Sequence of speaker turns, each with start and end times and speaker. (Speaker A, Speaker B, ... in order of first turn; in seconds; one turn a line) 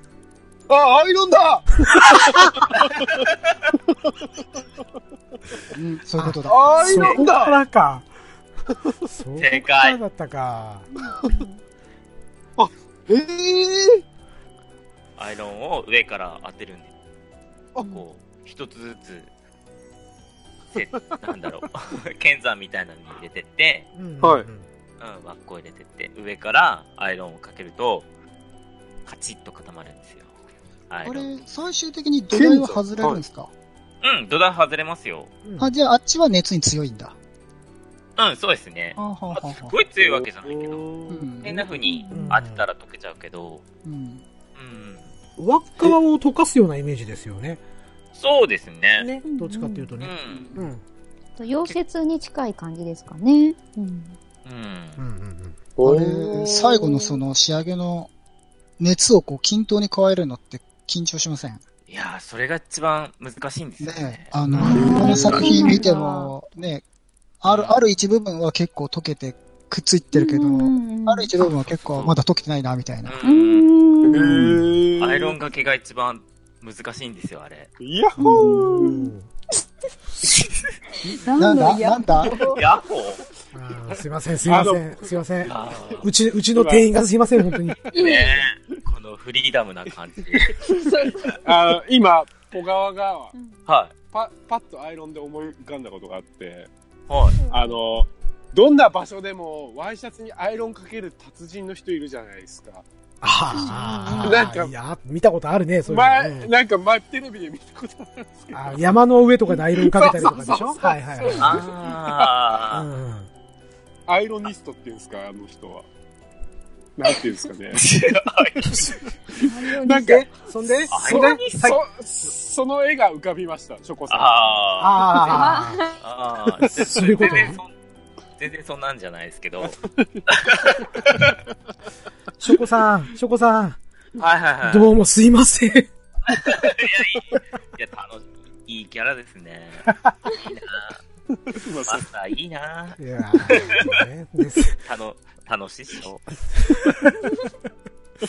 Speaker A: 0.7-3.2
Speaker B: 5.7-6.8
Speaker C: 6.2-8.1
Speaker A: 6.5-7.6
Speaker C: 9.1-10.9
Speaker D: 9.4-10.0
Speaker E: 11.0-11.6
Speaker A: 12.6-14.0
Speaker D: 15.2-16.9
Speaker A: 17.8-18.0
Speaker D: 17.8-19.3
Speaker D: 20.7-23.9
Speaker C: 23.9-24.7
Speaker A: 24.2-24.5
Speaker D: 25.0-28.1
Speaker D: 29.1-30.3
Speaker D: 30.9-31.3
Speaker B: 31.1-33.5
Speaker A: 32.3-33.2
Speaker D: 34.0-35.3
Speaker C: 35.5-35.7
Speaker B: 35.6-37.2
Speaker D: 38.2-43.6
Speaker B: 39.0-39.7
Speaker A: 40.0-41.2
Speaker B: 41.1-41.7
Speaker E: 41.8-42.4
Speaker C: 42.1-42.6
Speaker B: 43.9-44.2
Speaker D: 44.5-45.1
Speaker C: 45.4-47.6
Speaker D: 48.1-49.1
Speaker C: 49.0-50.8
Speaker E: 49.2-49.9
Speaker D: 50.0-50.6
Speaker E: 51.4-54.2
Speaker D: 54.5-55.0
Speaker C: 55.0-55.6
Speaker A: 55.8-57.2
Speaker B: 55.8-58.1
Speaker B: 58.8-61.6
Speaker D: 61.9-64.4
Speaker B: 63.8-66.8
Speaker C: 64.5-65.3
Speaker E: 64.6-66.3
Speaker A: 64.7-65.8
Speaker B: 67.4-73.2
Speaker D: 67.5-67.8
Speaker E: 70.1-71.3
Speaker D: 71.6-72.2
Speaker D: 73.0-73.7
Speaker E: 73.2-74.3
Speaker A: 74.1-75.4
Speaker C: 74.2-74.8
Speaker D: 75.0-77.7
Speaker A: 77.8-79.1
Speaker E: 78.2-78.9
Speaker C: 78.3-79.3
Speaker E: 81.1-82.7
Speaker B: 81.4-82.4
Speaker D: 82.3-83.2
Speaker C: 83.5-87.8
Speaker A: 84.5-86.9
Speaker D: 85.4-86.1
Speaker E: 87.9-88.5
Speaker D: 87.9-90.7
Speaker E: 90.6-91.4
Speaker A: 91.4-93.3
Speaker E: 93.3-93.6
Speaker D: 93.7-93.9
Speaker A: 94.1-96.7
Speaker D: 97.1-97.4
Speaker E: 97.4-97.8
Speaker A: 97.5-102.8
Speaker C: 103.2-106.5
Speaker E: 103.5-104.5
Speaker A: 104.2-104.7
Speaker A: 105.9-108.8
Speaker C: 108.5-111.6
Speaker A: 109.5-112.3
Speaker D: 111.4-112.9
Speaker C: 112.7-113.3
Speaker A: 114.1-115.9
Speaker A: 117.0-117.9
Speaker D: 117.7-118.9
Speaker E: 119.4-120.3
Speaker C: 119.8-121.8
Speaker A: 120.8-124.6
Speaker D: 120.9-121.8
Speaker D: 124.1-127.7
Speaker C: 124.8-125.8
Speaker E: 125.2-126.0
Speaker C: 126.6-127.6
Speaker A: 127.2-127.5
Speaker D: 128.4-131.3
Speaker A: 129.6-130.1
Speaker C: 132.4-133.8
Speaker D: 134.2-134.9
Speaker C: 134.6-135.9
Speaker D: 136.3-141.0
Speaker A: 141.5-142.1
Speaker D: 141.9-143.9
Speaker C: 143.0-144.8
Speaker D: 144.8-146.9